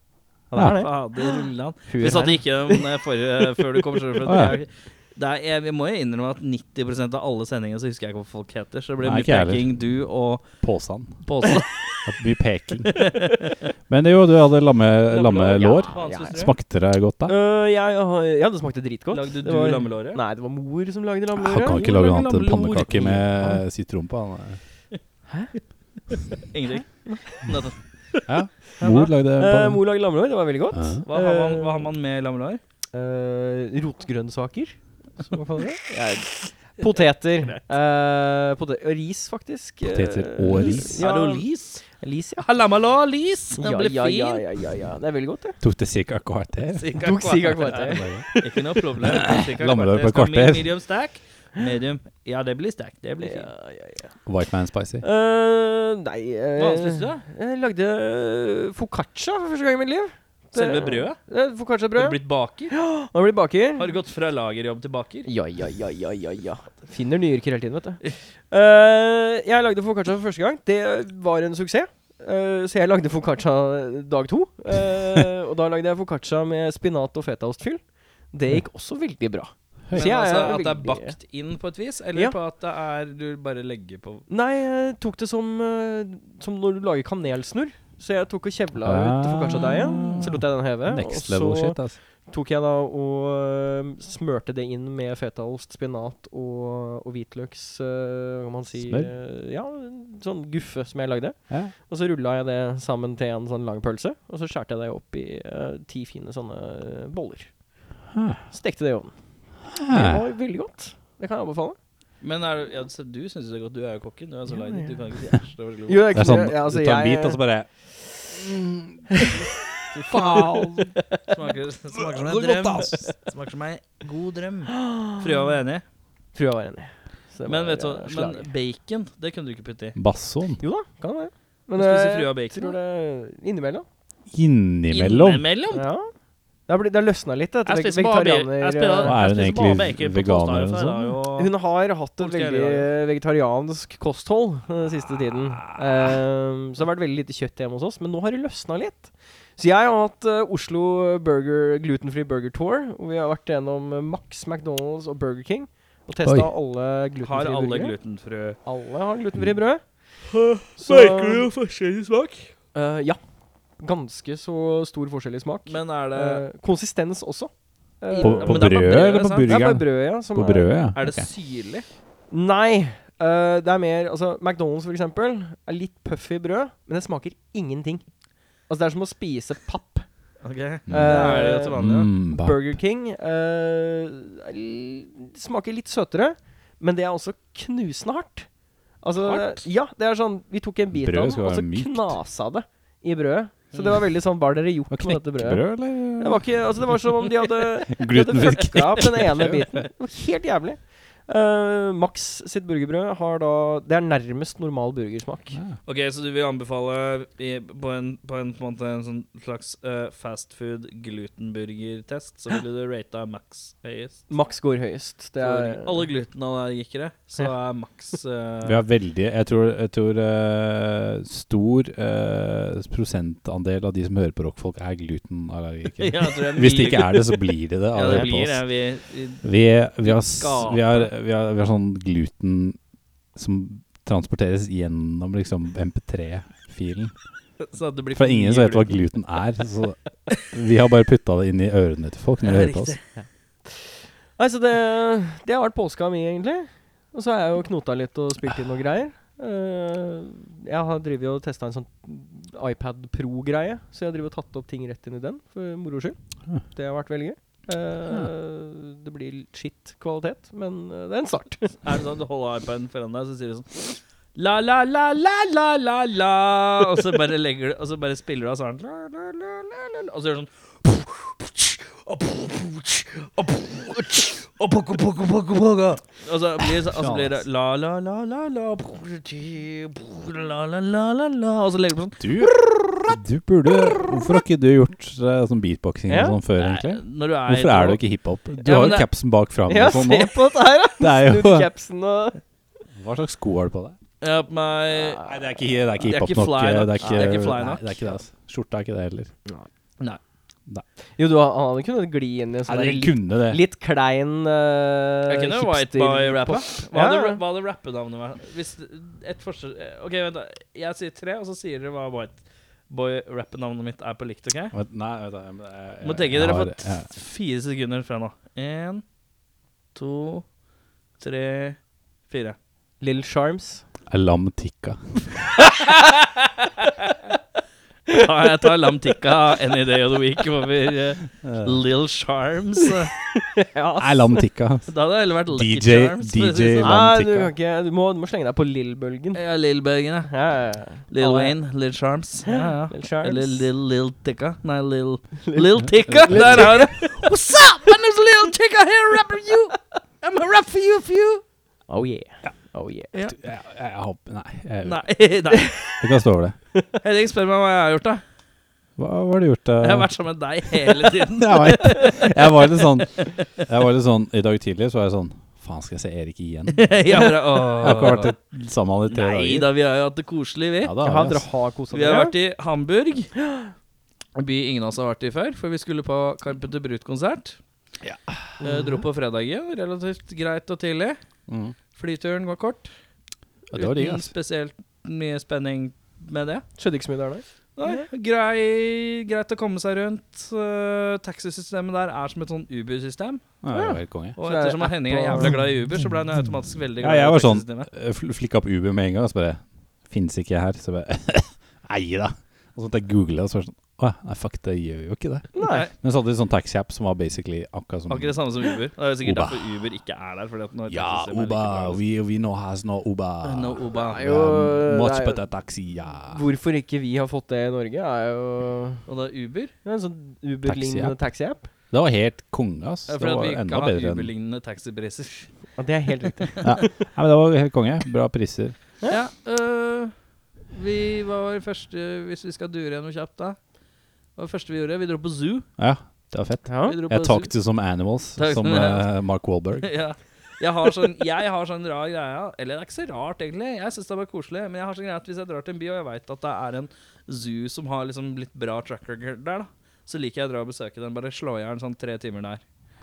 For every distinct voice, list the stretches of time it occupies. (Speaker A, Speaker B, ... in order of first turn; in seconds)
Speaker A: 0.5-1.5, 2.0-2.8, 15.6-16.4, 17.3-21.8, 29.4-31.9, 32.9-41.5, 42.0-42.5, 43.6-45.6, 47.0-48.6, 53.2-54.1, 55.0-63.9, 65.2-81.2, 84.3-107.6, 108.5-109.1, 109.8-111.8, 114.5-115.0, 115.9-117.4, 120.1-121.2, 124.7-125.2, 126.3-128.5, 130.6-133.9, 135.7-136.1, 136.7-139.2, 141.4-157.9, 158.7-159.8, 160.8-161.5, 162.7-163.2, 163.8-171.0, 172.3-178.1, 178.7-180.1, 180.9-181.8, 182.3-188.5, 189.0-195.7, 196.2-205.6, 214.3-216.1, 244.4-261.8, 286.1-286.4, 289.7-292.4, 297.0-297.5, 301.2-307.4, 323.0-323.8, 333.6-334.4, 336.8-339.4, 340.3-341.6, 342.5-343.7, 346.3-346.9, 351.9-353.1, 371.0-372.3, 378.6-379.0, 386.8-388.1, 393.7-395.6, 405.6-405.9, 414.1-415.4, 416.3-419.1, 419.9-421.7, 425.8-426.9, 436.7-437.0
Speaker B: 0.6-0.8, 1.9-2.3, 4.2-4.6, 9.0-9.8, 10.6-11.2, 12.1-13.1, 13.9-17.4, 21.4-24.6, 28.3-29.8, 30.7-31.1, 39.8-41.0, 45.6-48.3, 49.0-50.7, 54.3-55.0, 88.8-92.0, 98.8-99.1, 101.5-101.7, 108.1-108.4, 109.7-110.2, 116.1-117.7, 118.2-119.1, 120.1-120.5, 122.0-123.1, 130.0-130.6, 134.3-135.5, 139.0-141.2, 156.2-156.5, 168.2-171.3, 180.9-182.8, 190.9-192.2, 194.9-196.4, 197.9-199.8, 218.6-228.7, 229.4-232.8, 233.3-237.1, 238.1-243.0, 276.8-277.4, 282.2-282.6, 283.1-291.7, 292.9-294.0, 295.2-299.3, 302.7-303.6, 314.7-317.1, 324.1-325.5, 331.4-331.8, 334.0-334.9, 335.5-337.5, 346.0-346.9, 353.3-355.1, 356.0-356.6, 359.0-360.1, 361.1-367.0, 367.8-369.7, 370.8-371.5, 378.0-378.4, 381.5-381.8, 383.7-384.3, 393.6-394.4, 397.0-408.4, 409.2-409.7, 410.9-416.4, 420.6-421.3, 421.9-424.3, 426.6-428.8, 435.8-439.9
Speaker C: 0.6-10.5, 11.2-11.8, 12.9-13.6, 15.1-16.5, 19.1-20.2, 21.7-23.5, 26.1-28.2, 28.8-29.1, 31.1-32.6, 40.6-41.8, 42.4-44.4, 46.8-53.5, 56.6-57.2, 60.5-61.2, 62.0-62.8, 63.8-65.3, 79.9-84.2, 90.0-90.3, 112.2-116.1, 119.9-125.8, 127.5-130.0, 131.8-132.8, 134.9-135.8, 137.7-141.5, 142.2-142.9, 157.2-158.6, 160.3-162.5, 165.7-166.4, 168.1-169.6, 171.0-171.8, 180.4-182.1, 189.2-189.7, 193.7-194.0, 205.9-214.2, 215.4-218.8, 226.0-229.4, 230.0-231.1, 237.6-239.0, 242.4-243.0, 261.8-282.2, 286.6-288.0, 288.6-289.1, 294.2-295.2, 296.0-298.0, 305.3-314.7, 316.0-319.0, 319.9-320.4, 321.2-321.8, 322.3-322.6, 325.7-326.9, 328.1-333.1, 334.9-337.0, 339.3-340.3, 341.1-351.4, 354.8-356.0, 357.0-358.2, 359.8-362.6, 363.2-363.4, 366.7-368.3, 369.1-371.0, 371.9-373.3, 374.4-377.6, 378.6-381.2, 381.9-382.9, 383.7-386.6, 387.8-393.4, 394.4-397.9, 405.7-405.9, 408.1-412.0, 413.4-414.2, 419.1-419.7, 423.1-425.5, 429.1-430.1, 430.7-433.6, 434.4-435.7, 436.9-437.5, 438.4-439.1, 439.8-452.6